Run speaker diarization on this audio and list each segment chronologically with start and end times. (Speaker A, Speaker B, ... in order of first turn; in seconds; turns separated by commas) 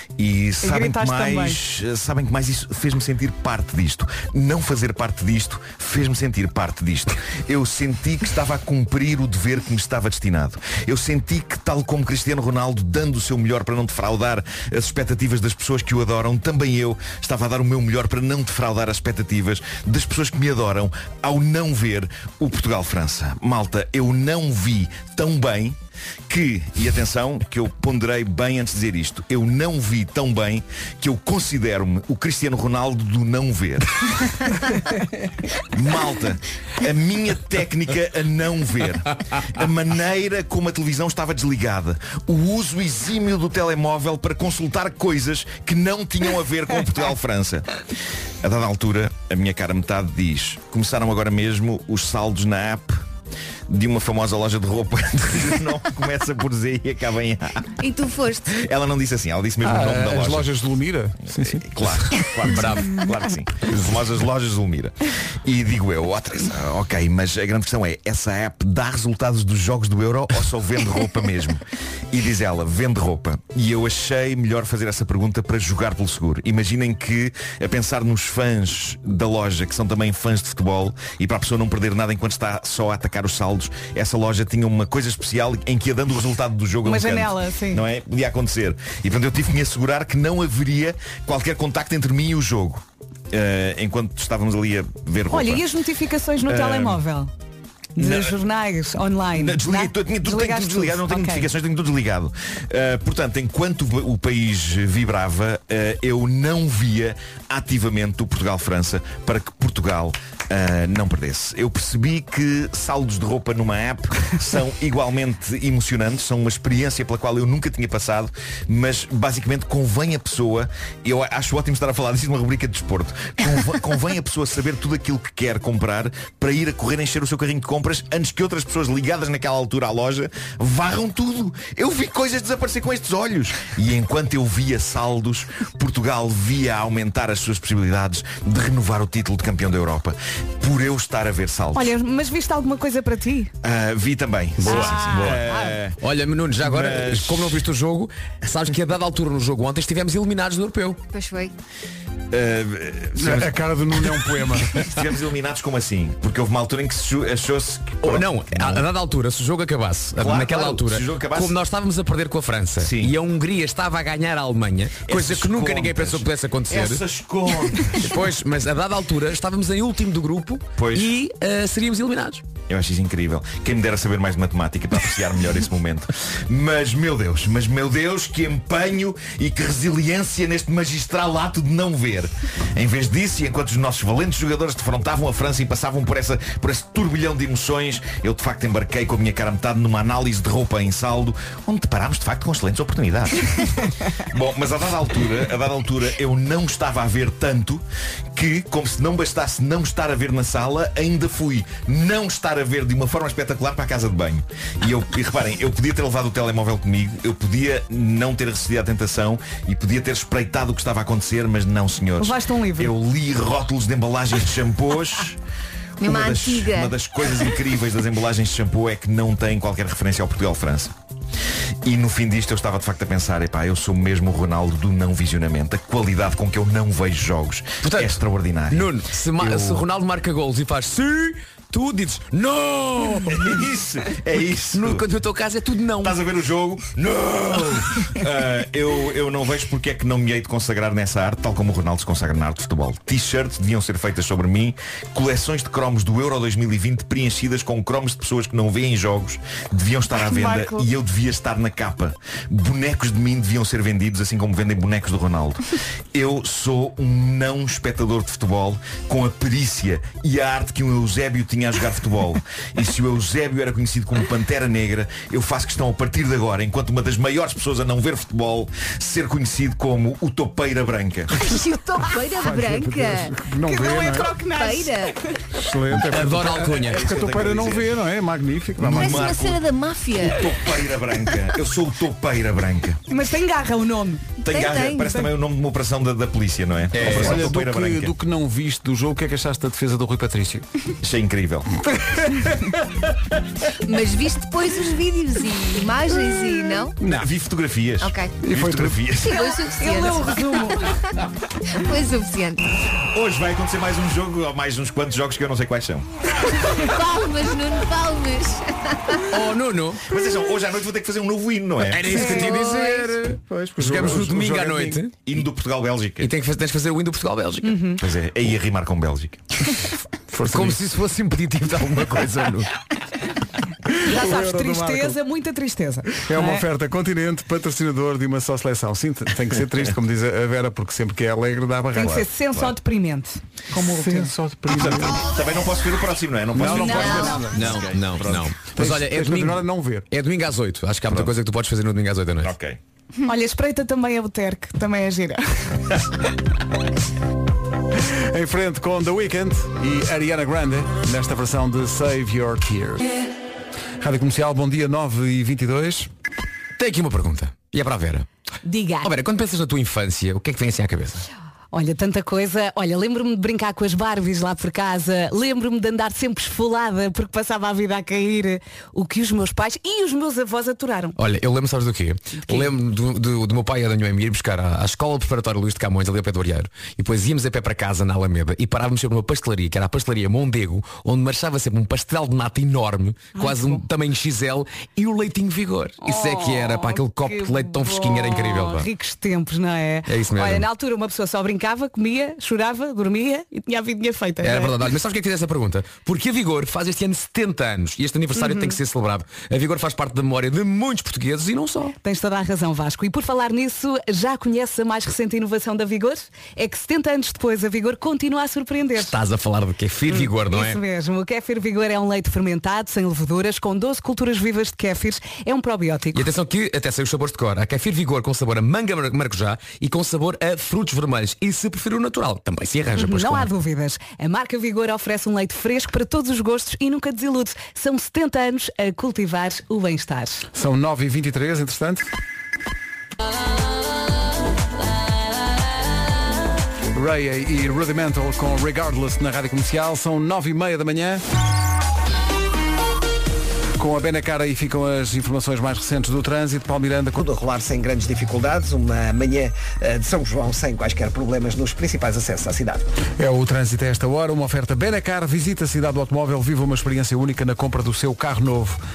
Speaker A: 0.2-25.8, Speaker B: 0.6-1.6, Speaker A: 26.3-33.9, Speaker A: 35.7-47.7, Speaker A: 48.4-53.0, Speaker A: 53.7-57.7, Speaker C: 57.8-58.6, Speaker A: 58.5-60.6, Speaker D: 59.6-62.0, Speaker A: 61.2-95.7, Speaker E: 62.5-63.0, Speaker B: 86.8-87.8, Speaker B: 95.3-97.3, Speaker A: 96.4-97.0, Speaker B: 98.0-101.5, Speaker A: 98.0-98.4, Speaker A: 99.3-141.9, Speaker B: 141.7-143.5, Speaker A: 143.6-146.0, Speaker E: 144.6-145.4, Speaker B: 144.6-145.7, Speaker E: 146.0-151.0, Speaker A: 146.6-147.7, Speaker C: 151.1-151.5, Speaker A: 152.3-158.9, Speaker D: 153.2-154.8, Speaker E: 158.0-167.0, Speaker A: 160.2-161.6, Speaker A: 162.8-163.2, Speaker A: 165.0-168.2, Speaker E: 167.9-172.4, Speaker A: 170.8-171.1, Speaker A: 172.7-215.4, Speaker B: 212.2-212.9, Speaker C: 216.0-216.9, Speaker A: 216.0-220.9, Speaker A: 221.8-229.8, Speaker E: 227.8-233.6, Speaker A: 233.3-235.1, Speaker E: 234.7-236.2, Speaker A: 236.0-271.4, Speaker B: 250.2-250.8, Speaker C: 271.3-273.3, Speaker D: 272.3-274.4, Speaker B: 273.6-275.3, Speaker C: 274.4-275.1, Speaker D: 275.5-279.3, Speaker E: 276.0-277.0, Speaker A: 276.7-278.0, Speaker A: 278.8-283.0, Speaker C: 278.9-280.5, Speaker B: 283.1-284.3, Speaker A: 284.4-288.1, Speaker C: 284.5-285.2, Speaker E: 286.9-287.5, Speaker D: 287.0-290.6, Speaker A: 291.0-291.7, Speaker C: 293.8-297.0, Speaker D: 297.0-297.3, Speaker A: 297.1-299.4, Speaker C: 298.0-298.4, Speaker D: 298.4-299.0, Speaker C: 299.2-300.5, Speaker B: 299.3-301.0, Speaker C: 301.7-302.6, Speaker A: 303.1-306.1, Speaker C: 306.7-309.2, Speaker E: 309.3-310.0, Speaker A: 310.1-312.3, Speaker E: 311.9-313.2, Speaker D: 312.1-315.0, Speaker E: 313.8-315.2, Speaker A: 315.2-316.3, Speaker E: 316.2-317.8, Speaker B: 317.6-318.0, Speaker A: 318.0-319.4, Speaker D: 320.3-320.8, Speaker E: 320.5-322.7, Speaker B: 324.0-326.6, Speaker D: 324.1-325.2, Speaker D: 326.2-332.2, Speaker B: 331.9-334.3, Speaker A: 332.0-332.8, Speaker D: 333.7-335.2, Speaker A: 334.7-338.6, Speaker D: 336.5-337.7, Speaker B: 336.6-337.6, Speaker E: 337.5-342.5, Speaker D: 338.7-340.1, Speaker A: 341.1-341.3, Speaker A: 342.4-342.8, Speaker B: 343.2-345.8, Speaker D: 347.9-353.1, Speaker D: 354.0-356.1, Speaker E: 356.8-358.2, Speaker B: 358.6-359.1, Speaker E: 359.0-361.2, Speaker B: 361.7-371.2, Speaker E: 371.2-388.9, Speaker B: 383.4-383.8, Speaker B: 386.0-394.7, Speaker E: 390.1-390.6, Speaker E: 394.4-401.9, Speaker B: 398.3-398.8, Speaker B: 402.0-409.1, Speaker E: 409.0-410.8, Speaker B: 410.1-416.3, Speaker E: 416.1-423.5, Speaker B: 422.9-430.4, Speaker D: 430.5-432.1, Speaker D: 436.9-441.2, Speaker D: 443.8-447.2, Speaker F: 447.2-452.8, Speaker D: 453.2-458.8